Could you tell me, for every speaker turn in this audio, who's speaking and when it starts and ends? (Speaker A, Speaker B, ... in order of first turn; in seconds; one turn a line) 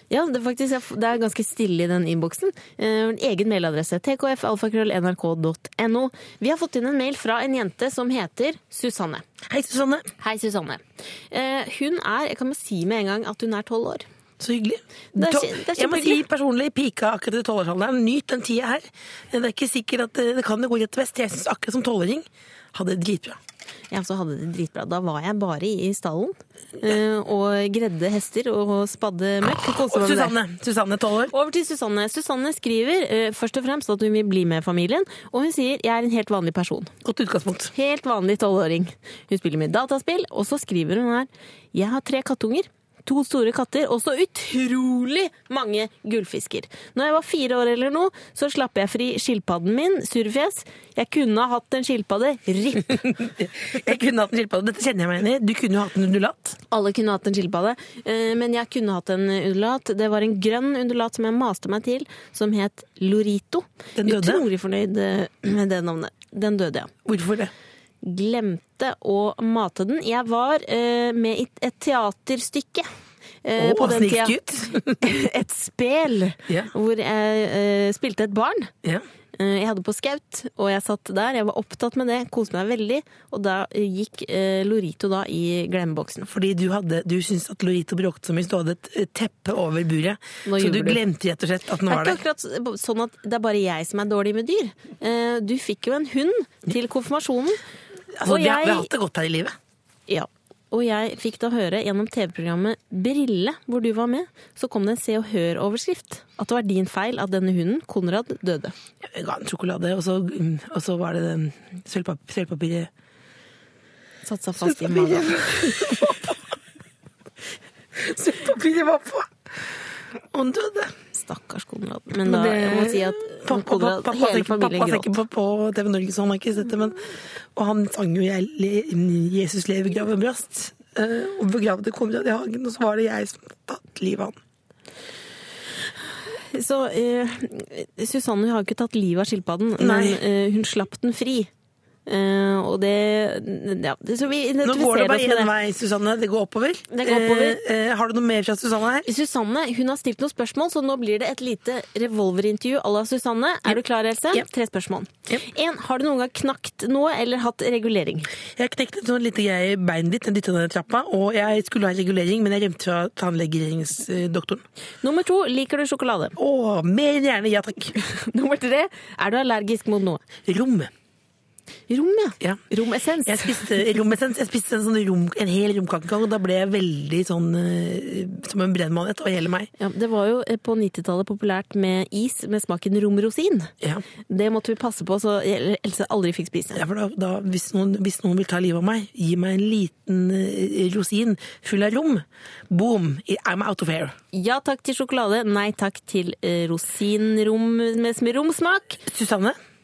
Speaker A: 0.1-9.2
Speaker B: 9.5-10.1
Speaker A: 10.2-14.1
Speaker B: 14.4-23.4
Speaker A: 15.2-16.2
Speaker A: 23.9-30.4
Speaker B: 29.6-31.3
Speaker A: 31.3-36.9
Speaker B: 37.0-37.7
Speaker A: 37.7-53.0
Speaker B: 52.9-56.6
Speaker A: 56.7-66.9
Speaker B: 64.0-64.5
Speaker B: 67.0-67.5
Speaker A: 68.0-72.9
Speaker A: 73.4-74.4
Speaker B: 73.6-75.0
Speaker A: 75.0-78.7
Speaker A: 79.4-86.3
Speaker B: 86.3-92.2
Speaker A: 90.5-91.0
Speaker A: 91.9-97.6
Speaker B: 98.2-99.5
Speaker A: 98.2-98.9
Speaker A: 100.1-108.7
Speaker B: 109.0-112.9
Speaker A: 114.2-116.0
Speaker B: 114.6-116.5
Speaker B: 118.0-121.0
Speaker A: 121.1-125.2
Speaker B: 122.2-134.4
Speaker A: 136.3-141.5
Speaker B: 139.8-140.2
Speaker A: 142.1-145.5
Speaker B: 144.6-149.1
Speaker A: 146.9-147.6
Speaker A: 149.1-158.3
Speaker B: 158.6-164.6
Speaker A: 165.0-166.4
Speaker B: 166.4-168.0
Speaker A: 168.0-170.2
Speaker B: 170.4-170.9
Speaker A: 171.9-173.8
Speaker B: 173.3-179.7
Speaker A: 179.8-183.7
Speaker A: 184.3-186.8
Speaker B: 186.7-194.2
Speaker A: 194.3-199.0
Speaker B: 199.1-199.6